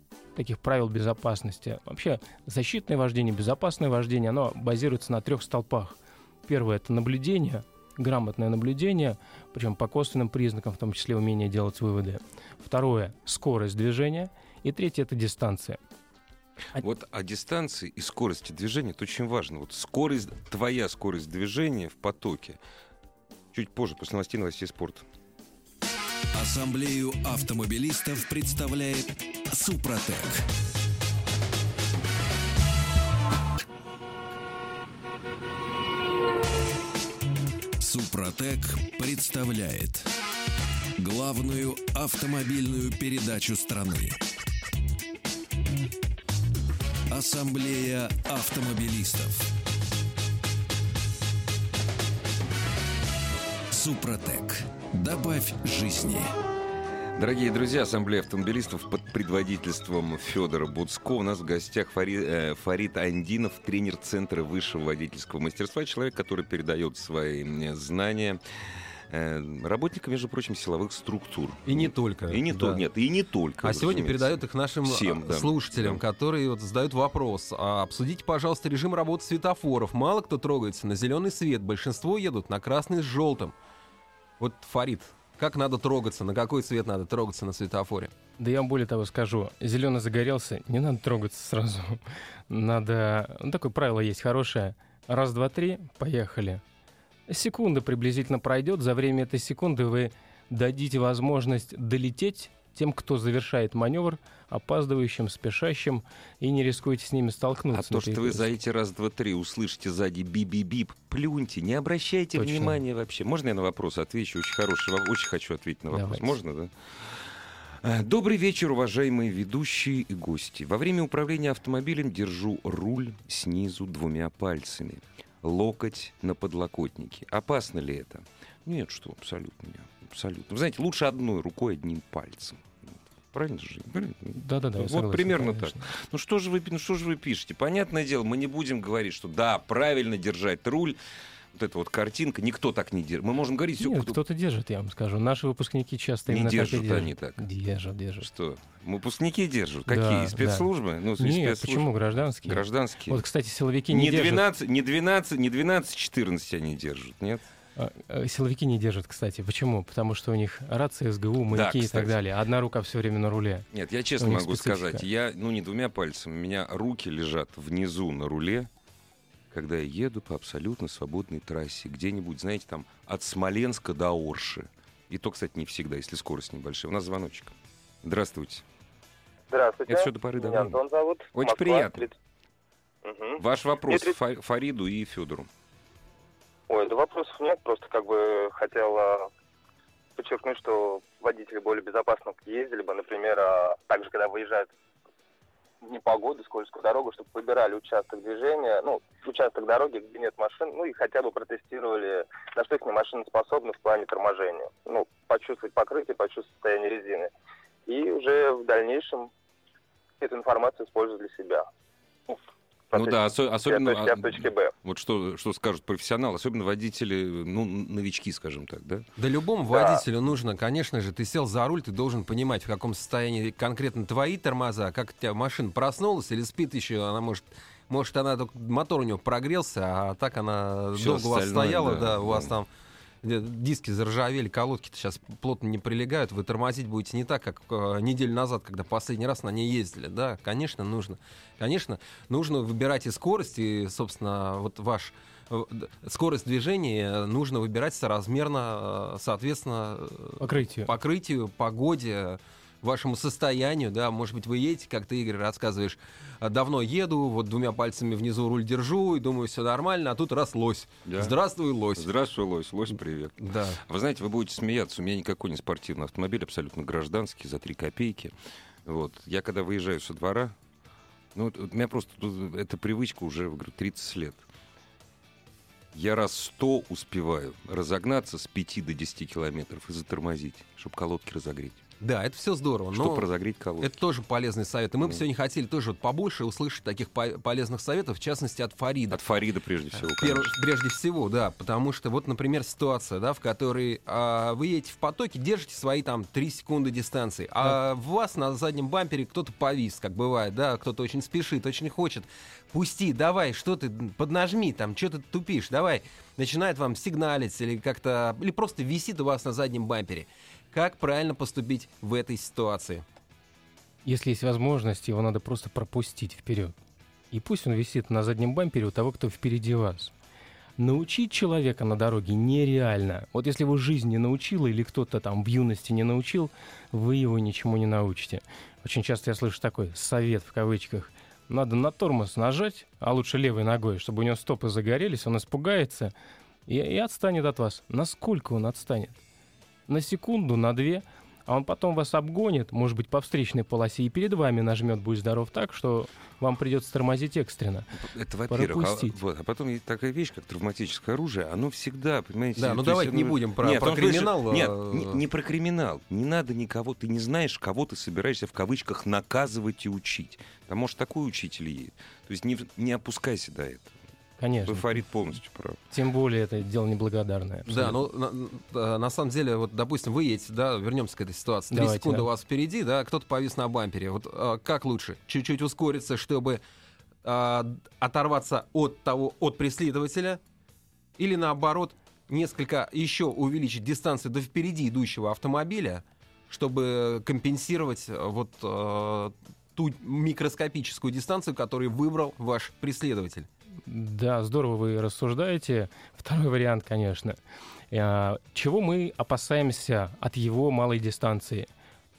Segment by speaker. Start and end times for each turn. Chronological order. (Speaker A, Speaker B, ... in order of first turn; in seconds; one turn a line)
Speaker A: 0.3-15.8
Speaker B: 16.7-22.6
Speaker B: 23.5-25.1
Speaker C: 26.3-30.5
Speaker C: 37.8-40.1
Speaker C: 41.0-44.2
Speaker C: 47.1-49.5
Speaker C: 53.7-56.3
Speaker B: 57.1-76.0
Speaker D: 71.7-72.8
Speaker D: 73.6-83.5
Speaker D: 84.4-88.1
Speaker A: 88.4-96.6
Speaker A: 97.3-108.5
Speaker B: 107.7-141.0
Speaker A: 112.3-112.8
Speaker A: 115.9-116.3
Speaker A: 134.3-135.9
Speaker B: 141.5-144.2
Speaker A: 143.8-148.3
Speaker B: 146.3-147.4
Speaker B: 148.2-151.9
Speaker A: 149.9-150.7
Speaker A: 151.2-154.4
Speaker B: 152.4-153.2
Speaker B: 153.9-157.4
Speaker A: 157.8-163.7
Speaker B: 161.5-162.2
Speaker B: 163.7-168.7
Speaker A: 164.2-165.1
Speaker B: 169.5-178.6
Speaker E: 179.5-182.1
Speaker B: 179.9-180.8
Speaker B: 181.3-182.1
Speaker E: 183.0-184.1
Speaker B: 183.4-185.5
Speaker E: 186.7-189.3
Speaker E: 190.2-194.7
Speaker E: 195.8-207.3
Speaker E: 207.8-209.3
Speaker E: 210.2-211.7
Speaker E: 212.9-214.7
Speaker B: 212.9-219.1
Speaker D: 219.2-232.7
Speaker E: 219.7-220.0
Speaker B: 230.9-232.5
Speaker D: 233.2-262.1
Speaker A: 250.4-250.9
Speaker B: 261.1-261.3
Speaker B: 261.9-270.6
Speaker D: 263.4-263.8
Speaker B: 271.3-274.4
Speaker B: 275.9-281.8
Speaker D: 282.0-283.3
Speaker B: 282.9-283.9
Speaker D: 283.8-289.2
Speaker B: 289.1-290.5
Speaker D: 290.0-313.0
Speaker A: 314.0-316.7
Speaker A: 317.3-320.1
Speaker A: 320.8-336.1
Speaker A: 336.7-339.2
Speaker A: 339.9-347.9
Speaker B: 348.0-363.9
Speaker A: 348.5-349.1
Speaker D: 352.6-355.2
Speaker A: 364.4-364.9
Speaker B: 364.6-365.8
Speaker A: 365.9-367.9
Speaker D: 367.7-376.6
Speaker A: 371.7-372.3
Speaker D: 377.2-380.4
Speaker D: 381.2-393.5
Speaker A: 393.9-397.4
Speaker A: 397.9-401.7